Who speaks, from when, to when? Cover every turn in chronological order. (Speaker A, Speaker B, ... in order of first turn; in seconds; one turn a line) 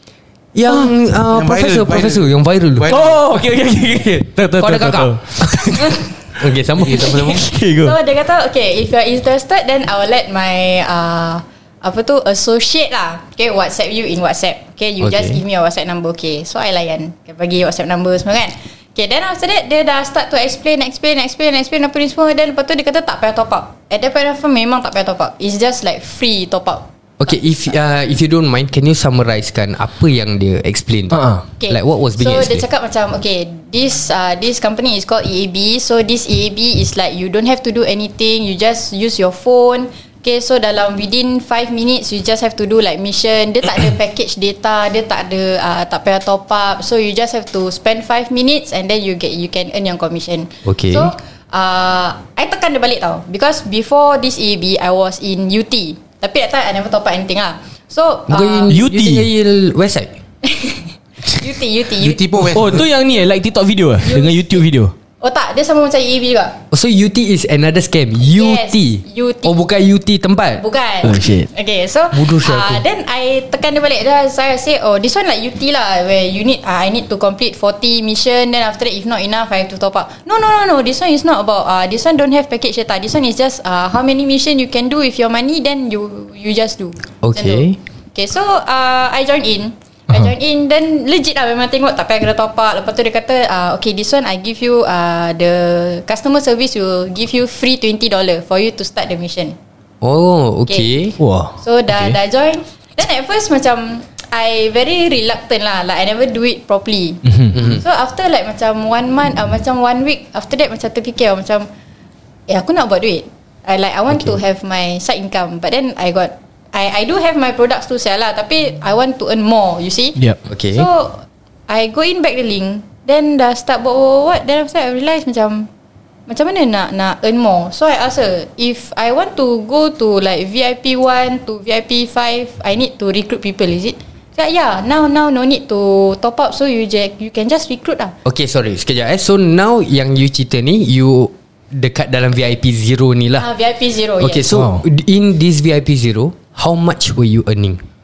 Speaker A: 0.5-7.3
Speaker B: 1.3-3.2
Speaker C: 2.9-6.0
Speaker B: 6.8-7.4
Speaker C: 6.9-8.0
Speaker D: 7.8-26.8
Speaker A: 15.0-15.4
Speaker A: 27.2-31.2
Speaker C: 31.1-31.4
Speaker D: 31.6-58.8
Speaker A: 31.7-32.6
Speaker A: 50.6-51.1
Speaker A: 58.3-60.1
Speaker C: 58.7-59.3
Speaker D: 60.4-62.2
Speaker B: 62.0-62.9
Speaker C: 62.5-64.9
Speaker D: 64.0-64.6
Speaker D: 65.2-66.6
Speaker A: 66.7-70.6
Speaker D: 68.3-69.6
Speaker D: 70.6-99.6
Speaker C: 71.0-71.5
Speaker A: 72.1-72.8
Speaker A: 87.2-87.8
Speaker A: 100.0-101.2
Speaker D: 100.7-100.9
Speaker C: 101.2-101.5
Speaker D: 101.6-111.7
Speaker A: 107.5-107.8
Speaker D: 112.5-125.7
Speaker A: 120.5-120.9
Speaker D: 126.3-138.1
Speaker A: 138.2-143.5
Speaker D: 143.4-144.5
Speaker A: 144.2-147.8
Speaker C: 144.5-144.8